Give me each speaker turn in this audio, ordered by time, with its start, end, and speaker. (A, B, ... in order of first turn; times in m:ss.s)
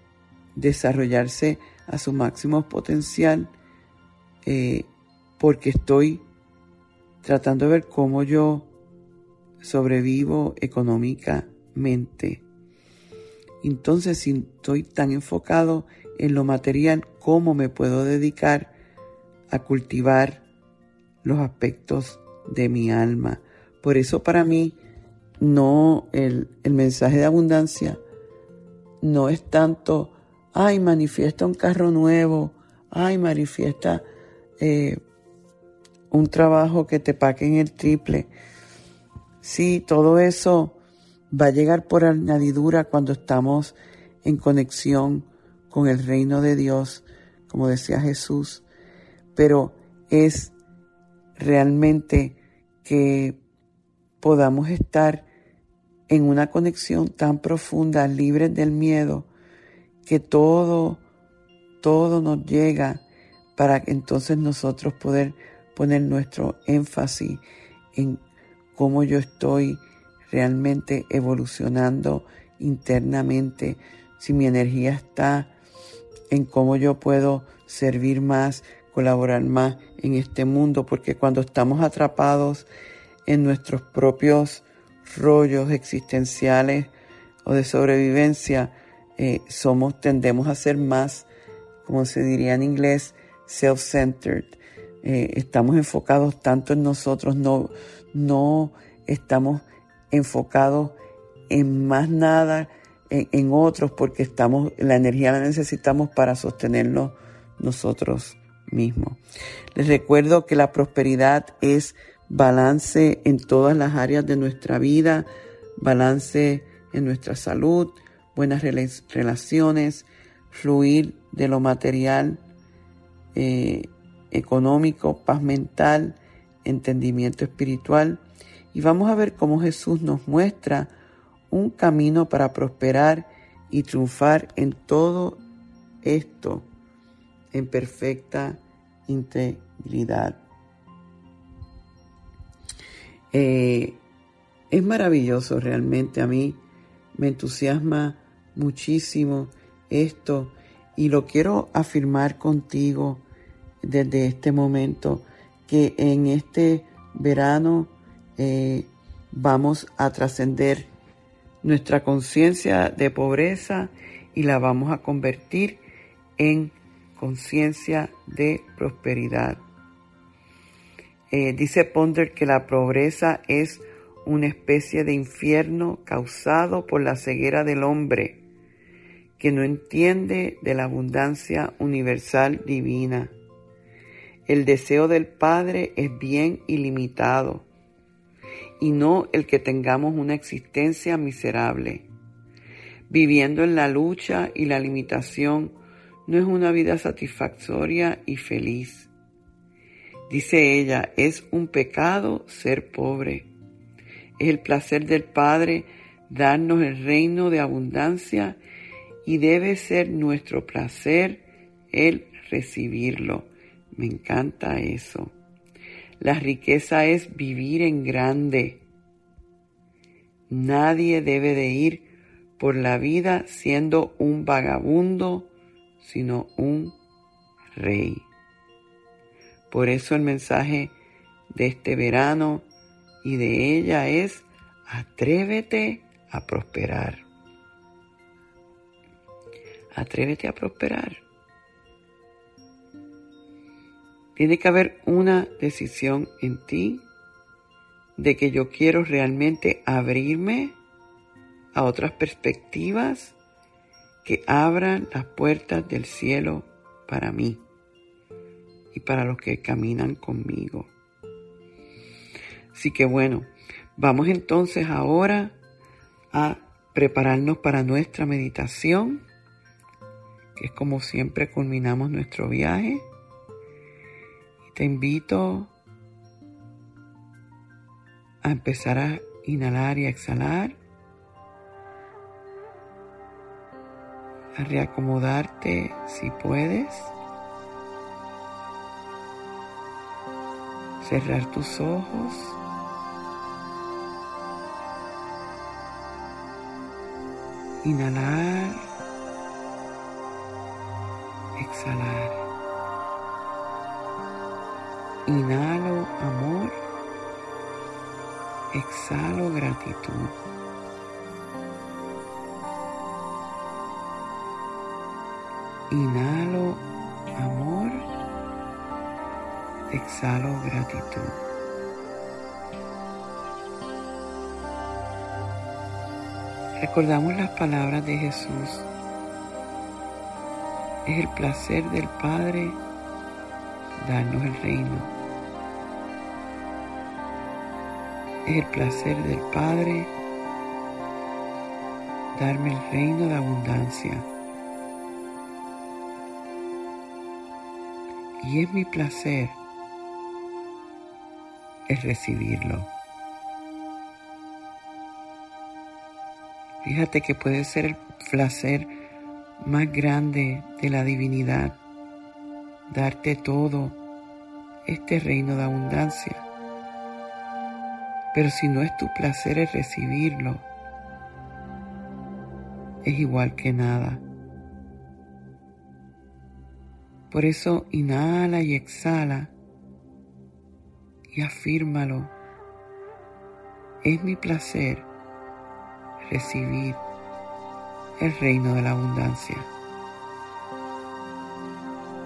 0:00.5-0:03.5 A
0:04.4-0:06.2 A
0:07.2-0:08.7 A
0:09.6-0:12.4 A
0:13.6-0:18.7 A
0:19.5-0:20.4 A
0:21.2-0:24.8 A
0:25.4-0:28.0 A
0:29.0-0:34.0 A
0:34.6-0:35.0 A
0:36.1-0:38.3 A
0:39.4-0:40.8 A
0:41.3-0:48.6 A
0:49.4-0:50.5 A
0:51.4-0:53.4 A
0:54.2-0:55.2 A
0:56.1-0:59.3 A
1:00.0-1:01.0 A
1:01.8-1:03.0 A
1:03.6-1:07.4 A
1:07.9-1:08.2 A
1:08.8-1:15.5 A
1:16.3-1:22.7 A
1:23.2-1:26.9 A
1:27.4-1:31.3 A
1:31.8-1:41.0 A
1:41.5-1:49.2 A
1:49.7-2:02.4 A
2:03.4-2:10.9 A
2:11.5-2:15.4 A
2:16.0-2:16.7 A
2:17.5-2:20.4 A
2:23.3-2:24.0 A
2:24.7-2:26.6 A
2:27.1-2:33.2 A
2:33.8-2:40.9 A
2:41.6-2:45.8 A
2:46.4-2:49.6 A
2:51.3-2:58.4 A
2:59.4-3:03.3 A
3:04.5-3:07.6 A
3:08.8-3:12.1 A
3:13.1-3:15.7 A
3:16.2-3:19.1 A
3:20.3-3:23.5 A
3:24.4-3:28.6 A
3:29.2-3:35.4 A
3:36.2-3:38.8 A
3:40.5-3:42.1 A
3:42.6-3:45.5 A
3:46.0-3:47.0 A
3:47.7-3:48.3 A
3:49.7-3:50.9 A
3:51.5-3:52.6 A
3:53.2-3:57.2 A
3:59.9-4:01.2 A
4:04.4-4:07.0 A
4:08.2-4:10.8 A
4:11.7-4:13.4 A
4:14.2-4:17.6 A
4:18.9-4:20.9 A
4:22.7-4:25.6 A
4:26.3-4:29.2 A
4:30.6-4:33.0 A
4:34.7-4:35.7 A
4:38.4-4:40.8 A
4:44.6-4:47.1 A
4:51.0-4:52.6 A
4:57.8-4:58.9 A
5:01.6-5:02.4 A
5:05.2-5:06.7 A
5:08.7-5:10.4 A
5:15.9-5:18.0 A
5:19.9-5:21.4 A
5:26.8-5:28.9 A
5:31.0-5:32.8 A
5:34.0-5:35.1 A
5:38.4-5:40.1 A
5:42.3-5:44.3 A
5:48.4-5:49.6 A
5:51.9-5:52.9 A
5:56.8-5:58.9 A
5:59.6-6:01.8 A
6:02.9-6:04.0 A
6:04.9-6:06.5 A
6:08.3-6:10.6 A
6:13.0-6:14.2 A
6:17.3-6:19.5 A
6:21.3-6:22.3 A
6:24.0-6:25.1 A
6:26.2-6:27.0 A
6:28.2-6:29.7 A